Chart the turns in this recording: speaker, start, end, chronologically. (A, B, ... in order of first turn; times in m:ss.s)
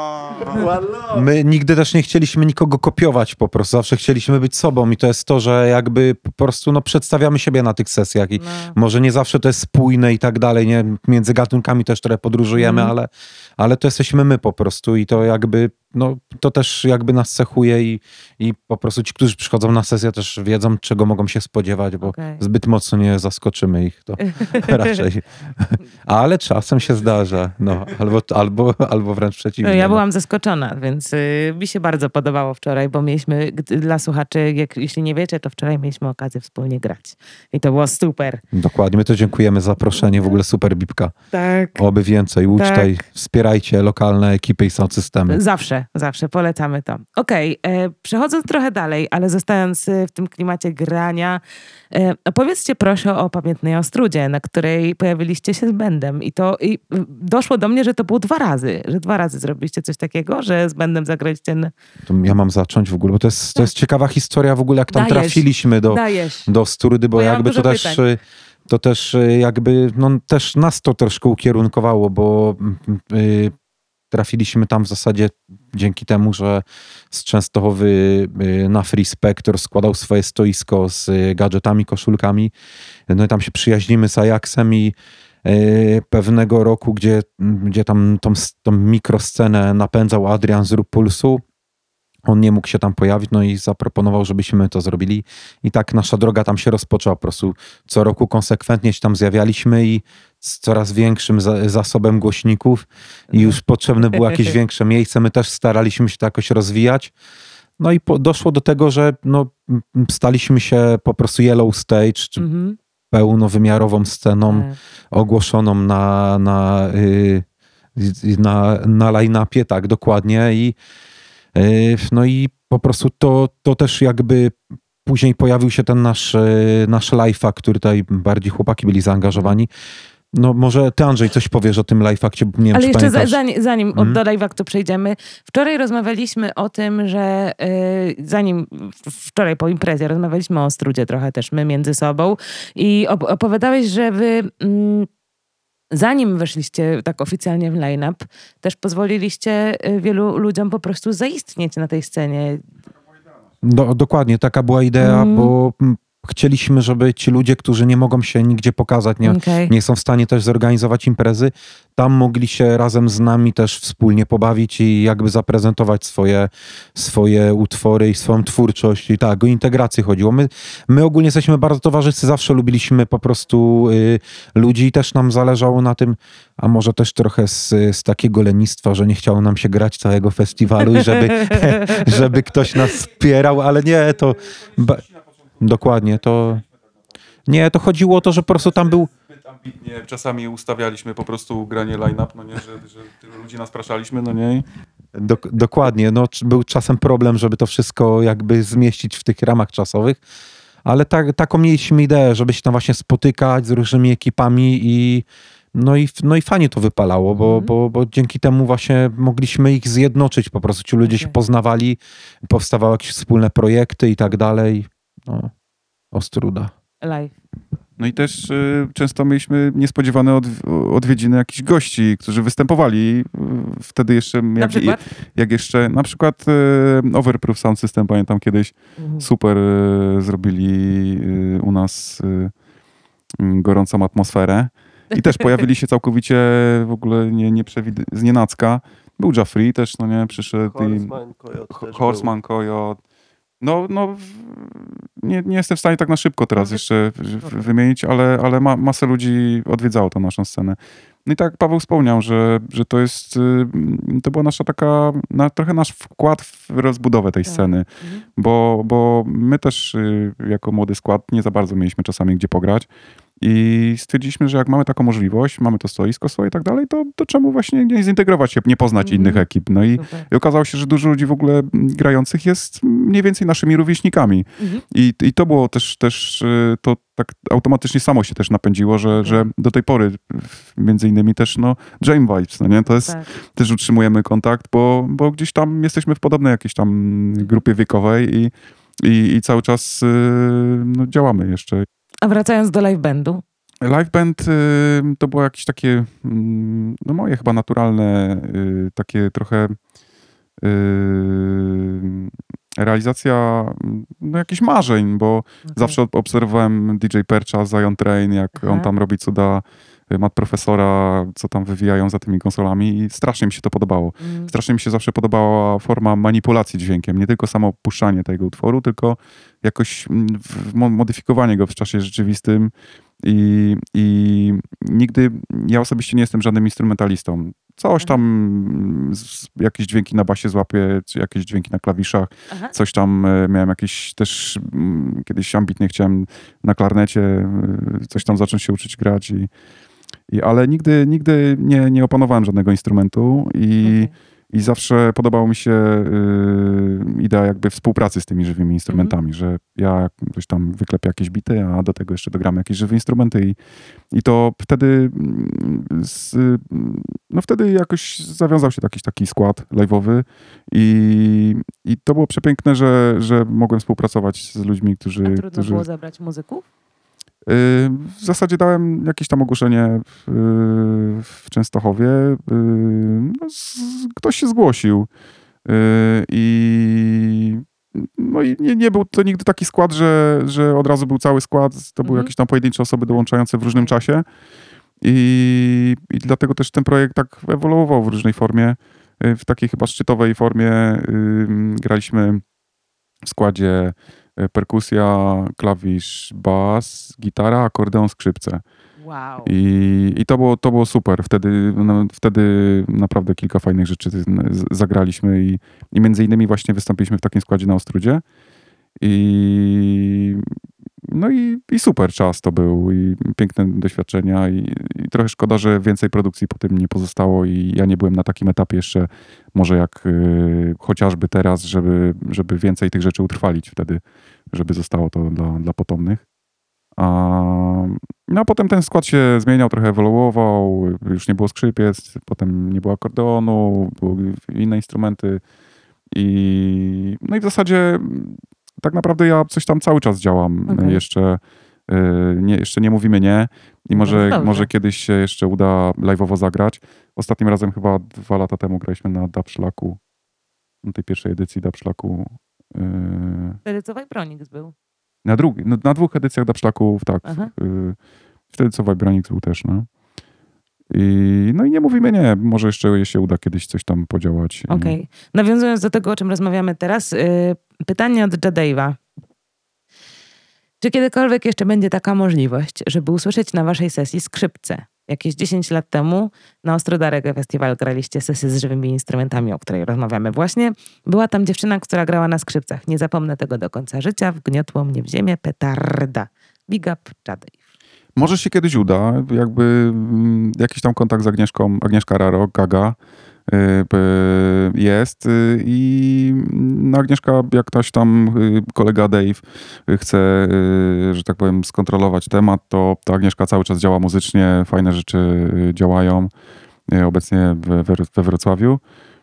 0:00.3-0:01.3 A
0:01.1-0:30.0 B
0:08.4-0:08.8 C
0:12.6-0:12.9 C
0:22.0-0:22.4 C
0:24.2-0:25.0 C
0:29.6-0:38.4 C
0:38.5-0:41.1 B
0:40.0-0:40.3 C
0:41.3-0:41.8 C
0:41.7-0:45.4 B
0:42.5-0:43.0 C
0:45.3-0:51.4 C
0:51.9-1:01.7 C
1:02.0-1:13.5 B
1:04.9-1:06.5 C
1:07.1-1:08.0 C
1:14.1-1:22.5 B
1:23.1-1:31.4 B
1:32.2-1:47.1 B
1:43.3-1:43.6 C
1:44.2-1:44.4 C
1:47.8-1:52.4 B
1:52.4-1:52.8 C
1:53.1-1:57.4 B
1:54.5-1:54.8 C
1:58.0-2:00.8 B
2:01.5-2:09.7 B
2:10.3-2:13.4 B
2:12.7-2:25.1 C
2:13.9-2:14.2 B
2:25.9-2:32.6 C
2:33.6-3:05.0 B
2:35.0-2:35.5 C
2:39.2-2:39.7 C
3:00.8-3:02.2 C
3:05.6-3:06.6 B
3:07.5-3:09.1 B
3:09.4-3:14.6 D
3:15.1-3:20.2 B
3:20.8-3:35.5 B
3:27.4-3:27.7 C
3:31.0-3:31.3 C
3:36.1-3:36.7 B
3:37.0-3:37.3 C
3:38.0-3:52.5 D
3:44.6-3:45.0 C
3:49.0-3:49.3 C
3:53.4-4:01.1 D
4:00.6-4:02.3 A
4:01.7-4:03.0 D
4:03.6-4:22.9 D
4:06.6-4:06.8 C
4:07.4-4:07.7 C
4:17.5-4:18.2 C
4:23.4-4:51.8 D
4:29.0-4:29.4 C
4:30.0-4:30.3 C
4:34.6-4:34.8 C
4:39.2-4:39.5 C
4:52.2-4:53.4 C
4:53.8-4:59.8 D
5:00.6-5:22.7 D
5:05.6-5:06.0 C
5:08.6-5:08.9 C
5:14.2-5:14.5 C
5:23.2-5:39.5 D
5:40.3-5:53.6 D
5:43.8-5:44.1 C
5:48.9-5:49.1 C
5:54.1-6:05.8 D
6:05.2-6:06.6 C
6:07.5-6:15.1 D
6:15.6-6:24.2 D
6:22.0-6:22.3 C
6:25.0-6:32.4 D
6:33.2-6:38.6 D
6:39.0-6:39.5 C
6:39.4-6:48.2 D
6:49.0-6:50.5 D
6:51.0-7:04.0 D
7:04.5-7:06.2 D
7:07.0-7:15.4 D
7:16.1-7:30.0 D
7:20.7-7:21.0 C
7:23.9-7:24.7 C
7:30.8-7:33.6 D
7:33.6-7:34.7 C
7:35.2-7:38.0 D
7:37.2-7:37.5 C
7:38.5-7:39.9 D
7:40.9-7:45.0 D
7:44.7-7:49.0 C
7:50.8-8:07.6 C
8:08.2-8:13.0 D
8:13.5-8:26.3 D
8:26.9-8:28.8 D